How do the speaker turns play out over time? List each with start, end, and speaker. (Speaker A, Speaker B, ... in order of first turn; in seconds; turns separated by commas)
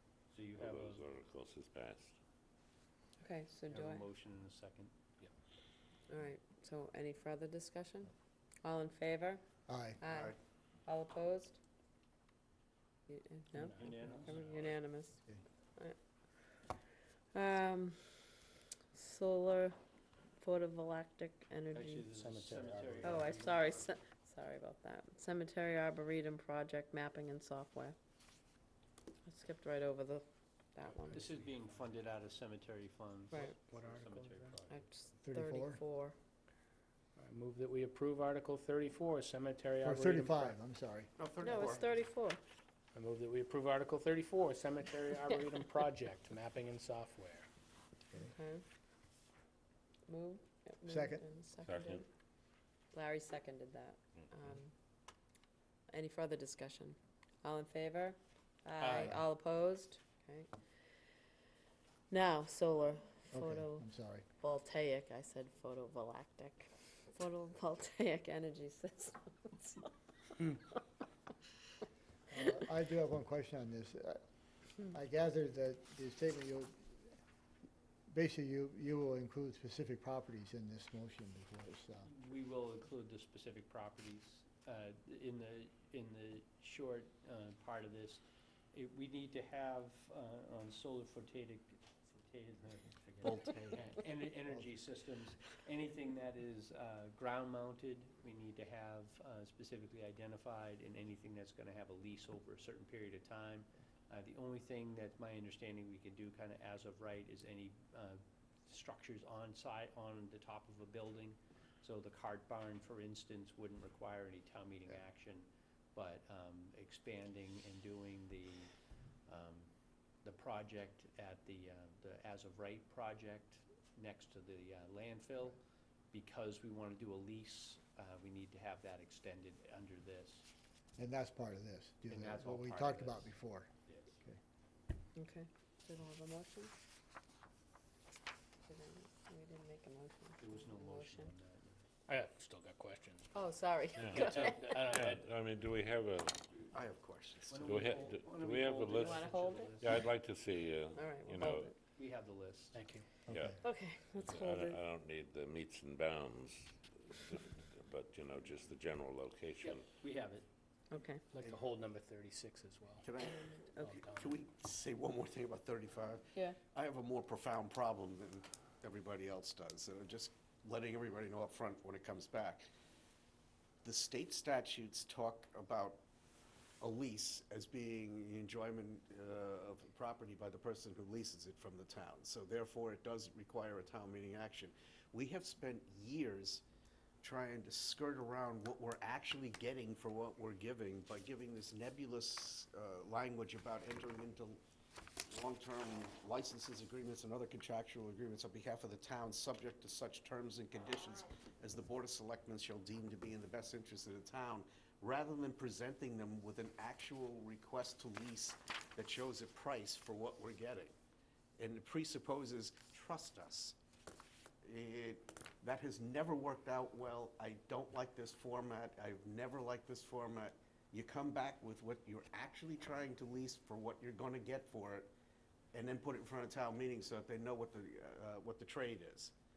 Speaker A: 0.3-1.0, Speaker B: 0.5-2.2, Speaker C: 3.2-4.0, Speaker A: 3.7-5.0, Speaker C: 6.1-8.1, Speaker C: 8.6-9.4, Speaker D: 9.7-10.0, Speaker C: 10.0-11.6, Speaker E: 10.1-10.3, Speaker C: 13.1-15.2, Speaker F: 13.5-14.7, Speaker A: 13.8-14.5, Speaker C: 17.3-18.3, Speaker C: 18.9-19.8, Speaker C: 20.4-22.1, Speaker A: 21.7-23.9, Speaker F: 22.0-23.3, Speaker C: 23.0-27.9, Speaker C: 29.2-31.2, Speaker A: 31.1-34.9, Speaker C: 33.3-33.6, Speaker F: 33.7-34.4, Speaker C: 34.7-36.1, Speaker D: 35.2-35.8, Speaker F: 37.1-40.5, Speaker D: 39.8-41.7, Speaker E: 41.2-41.8, Speaker C: 41.4-42.4, Speaker F: 42.9-47.5, Speaker C: 48.1-48.6, Speaker C: 50.1-52.1, Speaker D: 50.9-51.2, Speaker B: 51.6-52.0, Speaker C: 52.9-54.7, Speaker C: 55.9-60.5, Speaker A: 58.8-59.1, Speaker C: 62.1-69.9, Speaker D: 63.3-64.2, Speaker D: 72.3-74.2, Speaker D: 74.8-77.0, Speaker D: 78.1-82.1, Speaker A: 82.0-118.7, Speaker A: 119.3-119.7, Speaker A: 120.2-125.6, Speaker A: 126.1-130.4, Speaker D: 131.0-133.7, Speaker A: 132.1-133.3, Speaker A: 133.9-134.2, Speaker C: 135.2-136.7, Speaker C: 138.6-141.3, Speaker A: 140.4-141.8, Speaker F: 142.1-143.3, Speaker C: 143.3-144.9, Speaker B: 144.0-146.7, Speaker F: 144.1-145.2, Speaker E: 146.7-147.8, Speaker A: 147.5-150.0, Speaker B: 147.6-151.7, Speaker C: 148.9-149.9, Speaker C: 150.9-151.7, Speaker A: 151.9-152.8, Speaker F: 152.7-153.1, Speaker D: 153.2-153.6, Speaker B: 153.3-153.6, Speaker C: 153.6-154.8, Speaker B: 154.2-159.9, Speaker F: 159.6-160.4, Speaker A: 160.0-160.3, Speaker C: 160.9-161.2, Speaker F: 161.3-163.1, Speaker E: 163.0-172.7, Speaker C: 163.2-163.8, Speaker F: 163.8-164.3, Speaker E: 173.8-176.0, Speaker E: 176.8-186.6, Speaker E: 187.2-194.6, Speaker E: 195.3-210.9, Speaker E: 211.6-213.8, Speaker E: 214.6-225.1, Speaker E: 225.7-229.3